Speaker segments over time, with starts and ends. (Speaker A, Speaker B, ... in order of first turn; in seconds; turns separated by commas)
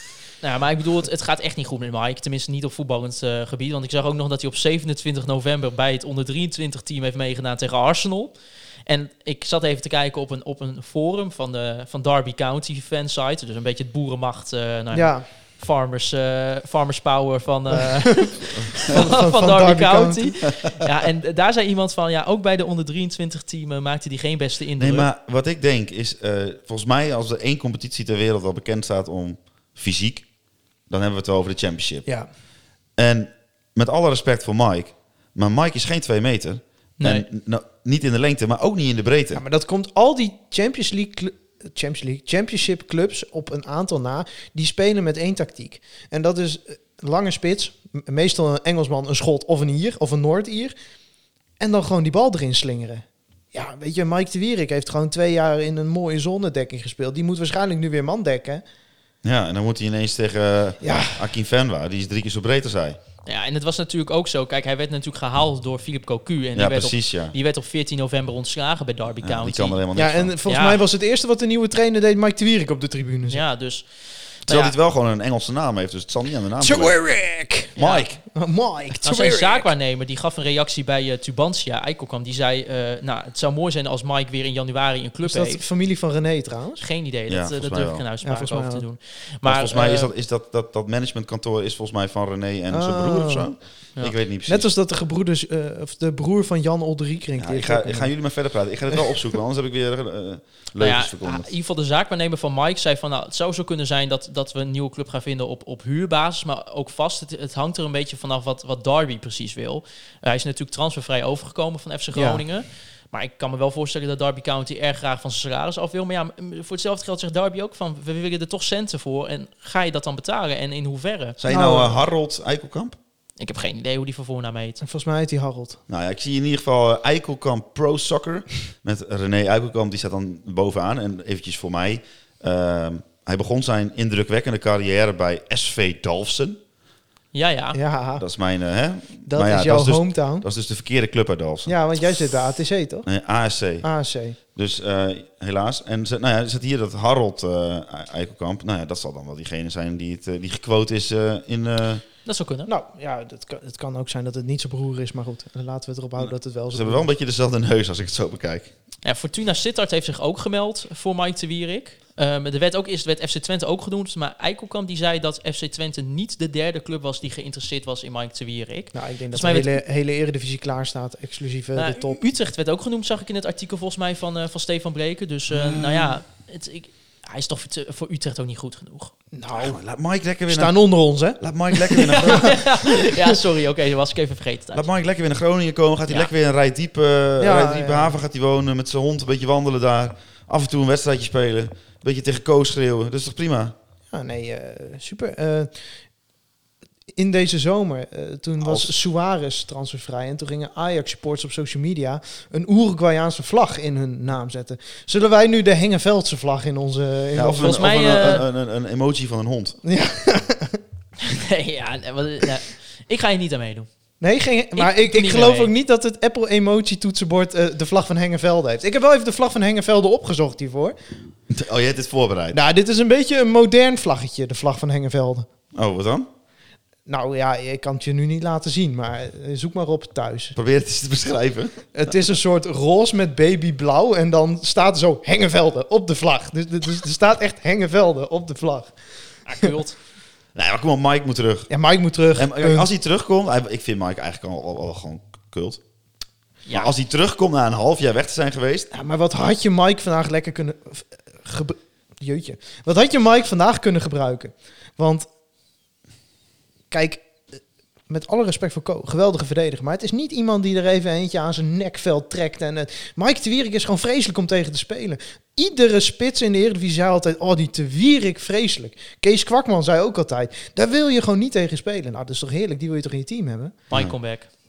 Speaker A: 0.4-8.3, Speaker A: 8.9-25.1, Speaker B: 14.9-15.2, Speaker B: 17.7-20.4, Speaker C: 24.8-30.3, Speaker C: 30.9-32.1, Speaker C: 33.0-39.4, Speaker A: 37.0-37.2, Speaker B: 39.3-50.7, Speaker B: 51.6-58.6, Speaker C: 59.2-63.0, Speaker B: 60.8-61.2, Speaker A: 63.3-69.8, Speaker C: 66.5-67.3, Speaker C: 69.2-70.3, Speaker B: 70.0-73.4, Speaker A: 70.5-70.8, Speaker A: 73.3-74.8, Speaker C: 74.5-77.0, Speaker B: 76.6-77.7, Speaker A: 77.8-78.1, Speaker C: 77.8-78.2, Speaker B: 78.3-79.7, Speaker A: 79.0-85.6, Speaker B: 85.2-86.8, Speaker A: 86.8-90.1, Speaker C: 87.3-88.0, Speaker B: 88.2-88.8, Speaker C: 89.5-94.7, Speaker B: 92.7-93.5, Speaker B: 94.5-98.1, Speaker C: 97.4-101.5, Speaker A: 100.8-121.4, Speaker B: 112.1-112.4, Speaker C: 121.4-123.0, Speaker B: 121.5-122.0, Speaker A: 123.4-124.8, Speaker B: 124.8-125.8, Speaker C: 125.9-136.6, Speaker A: 137.3-137.8, Speaker B: 137.7-138.2, Speaker C: 138.2-141.7, Speaker B: 139.3-140.4, Speaker B: 141.7-143.1, Speaker C: 143.1-143.9, Speaker B: 143.8-144.4, Speaker C: 144.5-152.0, Speaker A: 152.2-152.7, Speaker B: 152.7-157.1, Speaker C: 156.7-158.7, Speaker A: 159.0-169.8, Speaker B: 168.9-172.2, Speaker A: 171.8-179.1, Speaker C: 175.5-176.2, Speaker B: 179.3-179.8, Speaker C: 179.5-180.8, Speaker B: 180.5-181.4, Speaker C: 181.4-182.6, Speaker B: 182.0-183.3, Speaker A: 182.0-184.9, Speaker C: 184.7-193.8, Speaker B: 187.4-188.2, Speaker B: 194.1-195.7, Speaker B: 197.2-207.9, Speaker C: 198.6-198.9, Speaker C: 207.4-209.8, Speaker A: 207.6-208.5, Speaker B: 209.8-210.8, Speaker A: 211.2-213.9, Speaker B: 214.2-221.0, Speaker A: 214.8-215.7, Speaker C: 221.5-222.6, Speaker B: 222.5-225.5, Speaker C: 225.7-226.3, Speaker B: 227.1-230.6, Speaker C: 230.6-231.8, Speaker B: 231.9-238.9, Speaker A: 239.5-240.0, Speaker C: 240.6-241.7, Speaker B: 241.7-242.9, Speaker C: 242.3-245.8, Speaker A: 246.7-246.9, Speaker C: 246.7-248.9, Speaker B: 248.9-255.3, Speaker B: 256.9-257.6, Speaker B: 258.1-273.7, Speaker A: 273.9-274.5